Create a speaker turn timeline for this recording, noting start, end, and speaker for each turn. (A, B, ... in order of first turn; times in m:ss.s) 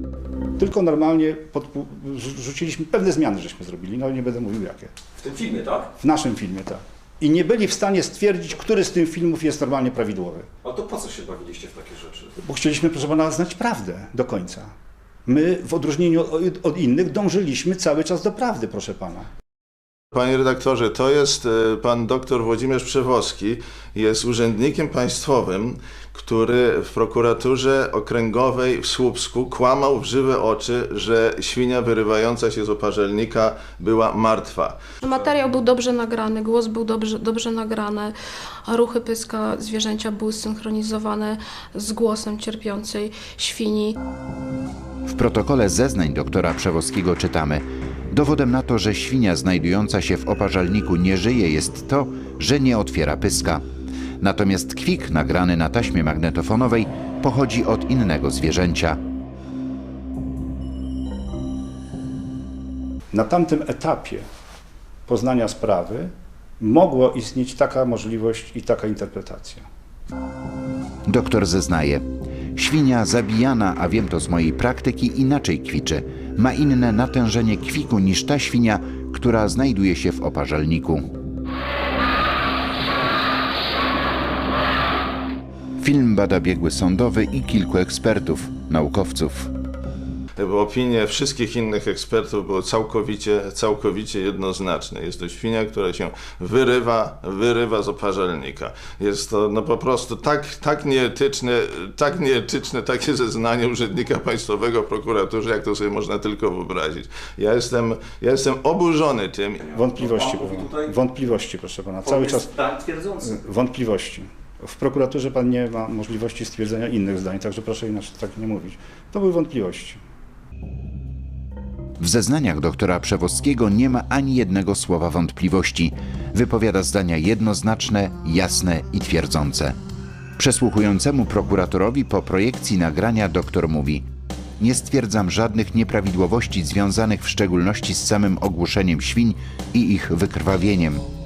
0:00.6-0:04.9 A
0:05.2-0:05.9 B
0:06.0-0:10.5 A
0:10.6-0:12.3 B
0:12.4-0:14.7 A
0:15.2-0:19.3 A
0:20.1-0:35.3 C
0:35.0-0:38.1 D
0:38.7-0:44.0 D
0:45.1-0:53.6 E
0:54.2-0:59.0 E
1:03.1-1:04.2 A
1:05.1-1:09.6 A
1:11.1-1:12.0 E
1:12.6-1:21.0 E
1:25.8-1:29.5 E
1:30.4-1:49.7 C
1:49.7-2:00.0 A
2:02.0-2:09.7 E
2:10.4-2:14.0 E
2:14.6-2:21.0 E